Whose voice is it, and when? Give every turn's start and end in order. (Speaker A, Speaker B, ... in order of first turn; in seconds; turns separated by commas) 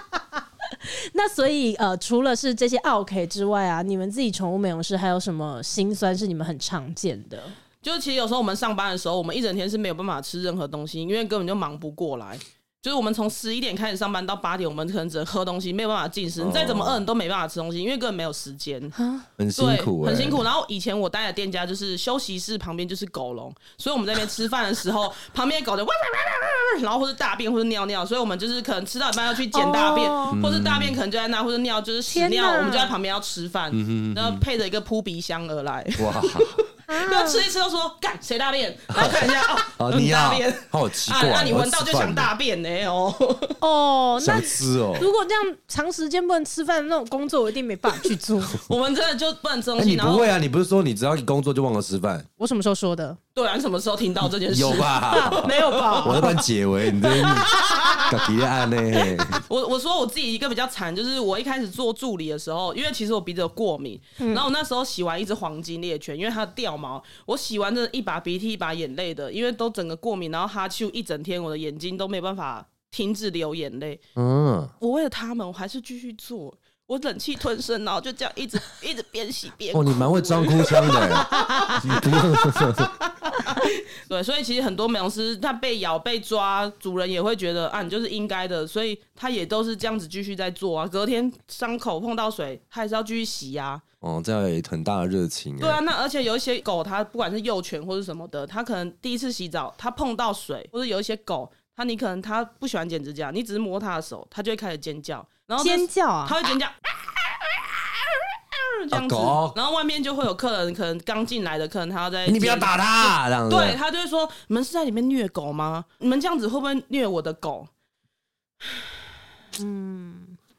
Speaker A: 1.1-7.5, Speaker B: 7.8-19.0, Speaker C: 16.4-17.0, Speaker A: 19.0-19.2, Speaker C: 19.4-20.4, Speaker B: 19.6-43.6, Speaker A: 29.5-30.4, Speaker C: 30.3-31.0, Speaker A: 32.0-32.9, Speaker C: 33.7-34.4, Speaker C: 36.0-36.6, Speaker A: 36.9-37.5, Speaker C: 38.9-42.3, Speaker A: 43.6-48.6, Speaker C: 44.2-45.1, Speaker B: 48.6-50.3, Speaker C: 49.8-52.3, Speaker A: 52.4-53.2, Speaker B: 53.4-56.4, Speaker C: 54.5-59.4, Speaker A: 55.1-56.4, Speaker B: 57.0-58.1, Speaker B: 59.2-74.0, Speaker A: 64.2-64.5, Speaker C: 74.2-74.7, Speaker B: 74.8-93.8, Speaker C: 79.7-82.9, Speaker A: 81.2-82.0, Speaker C: 94.0-95.8, Speaker B: 95.6-106.8, Speaker A: 105.6-106.4, Speaker B: 107.5-117.7, Speaker C: 108.9-109.6, Speaker C: 112.3-113.8, Speaker A: 119.6-120.4